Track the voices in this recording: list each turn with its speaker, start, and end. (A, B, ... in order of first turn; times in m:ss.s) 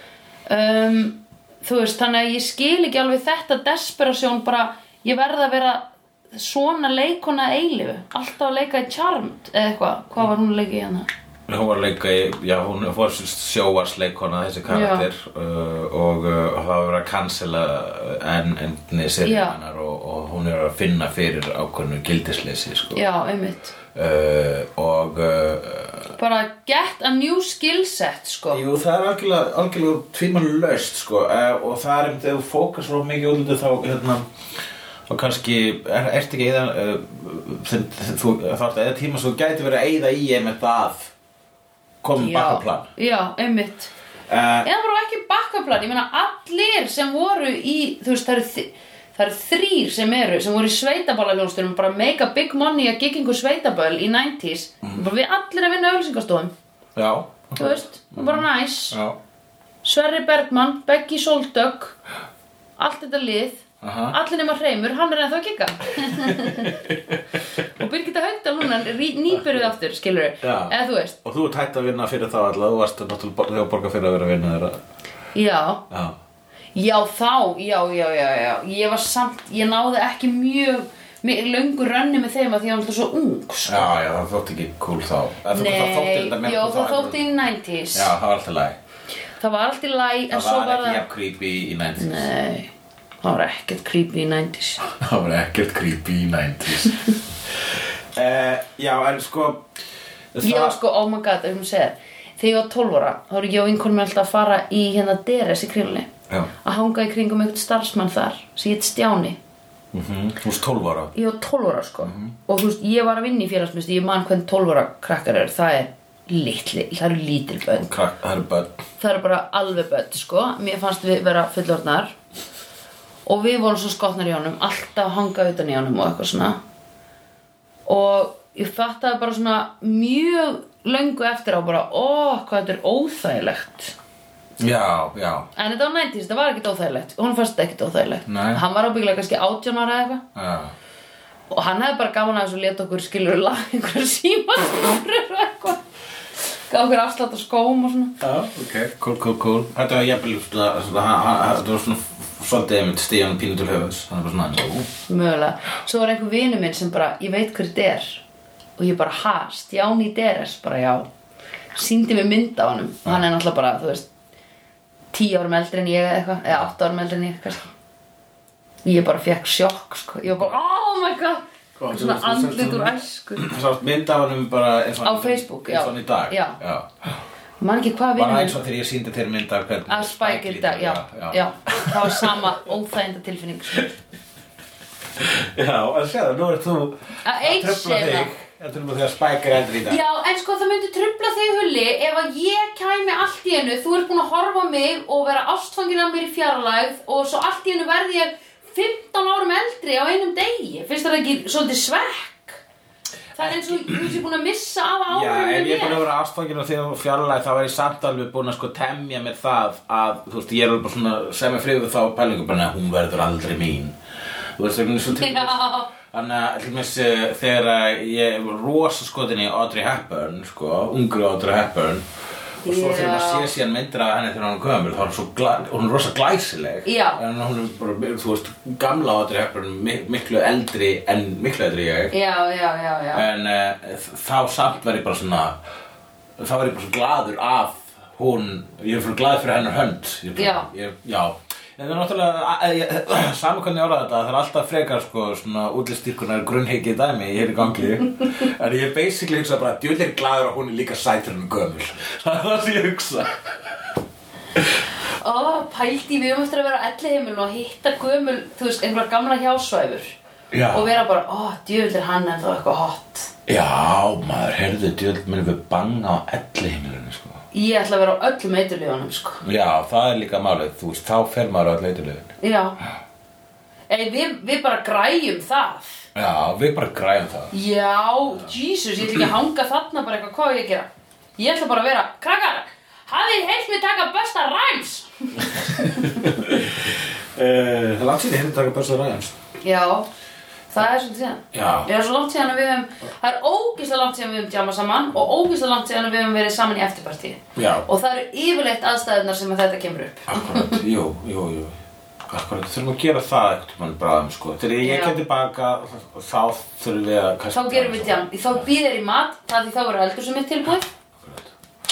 0:00.5-0:11.1 A
0:11.5-0:23.0 B
0:14.7-0:15.1 A
0:19.2-0:19.6 A
0:22.9-0:23.7 A
0:23.9-0:26.1 B
0:26.2-0:28.6 A
0:28.5-0:34.2 B
0:35.1-0:41.1 B
0:42.0-0:42.9 B
0:42.2-0:43.9 A
0:44.3-0:44.7 B
0:44.6-0:56.5 A
0:57.0-0:59.2 B
0:57.6-0:59.0 A
0:59.8-1:02.0 A
1:02.8-1:06.8 A
1:03.8-1:04.2 B
1:06.0-1:07.2 B
1:07.8-1:11.2 A
1:09.4-1:09.6 B
1:10.4-1:14.8 B
1:15.4-1:15.8 A
1:15.9-1:16.2 B
1:16.8-1:23.9 A
1:23.7-1:27.2 B
1:25.5-1:28.1 A
1:27.9-1:28.8 B
1:29.4-1:31.0 A
1:30.3-1:32.3 B
1:32.0-1:32.7 A
1:33.2-1:34.8 A
1:34.8-1:39.6 B
1:40.3-1:40.8 B
1:40.4-1:46.1 A
1:46.6-1:49.4 A
1:49.9-1:51.1 B
1:51.2-1:57.9 A
1:52.0-1:52.4 B
1:57.7-1:58.8 B
1:59.0-2:02.2 A
2:03.3-2:06.6 A
2:07.9-2:14.0 A
2:14.6-2:15.5 B
2:15.6-2:20.2 A
2:18.3-2:18.6 B
2:20.4-2:20.7 B
2:21.5-2:25.8 A
2:26.7-2:28.2 A
2:28.2-2:34.9 B
2:35.1-2:38.2 A
2:38.8-2:41.1 A
2:41.8-2:44.1 A
2:45.1-2:47.7 A
2:48.8-2:53.5 A
2:51.8-2:57.1 B
2:55.0-2:56.6 A
2:57.6-2:58.6 A
2:58.2-3:02.5 B
2:59.9-3:03.9 A
3:05.2-3:10.0 B
3:07.2-3:08.3 A
3:09.9-3:22.6 A
3:23.4-3:26.1 A
3:23.4-3:24.2 B
3:25.1-3:34.0 B
3:34.6-3:42.0 B
3:35.2-3:35.9 A
3:42.6-3:52.1 B
3:42.6-3:43.5 A
3:46.8-3:47.2 A
3:52.1-3:53.3 A
3:53.1-3:55.6 B
3:56.4-4:14.0 B
4:00.4-4:00.7 A
4:15.1-4:20.2 A
4:20.5-4:20.9 B
4:20.7-4:23.3 A
4:23.5-4:27.4 B
4:27.5-4:29.4 A
4:29.4-4:32.3 B
4:32.4-4:32.8 A
4:33.9-4:36.1 A
4:36.2-4:37.5 B
4:37.5-4:46.2 A
4:45.6-4:49.3 B
4:49.6-4:50.1 A
4:50.7-5:00.8 A
4:51.5-4:51.9 B
4:57.6-4:57.8 B
5:00.3-5:01.8 B
5:02.3-5:08.7 B
5:04.8-5:05.2 A
5:07.5-5:10.9 A
5:11.2-5:11.5 B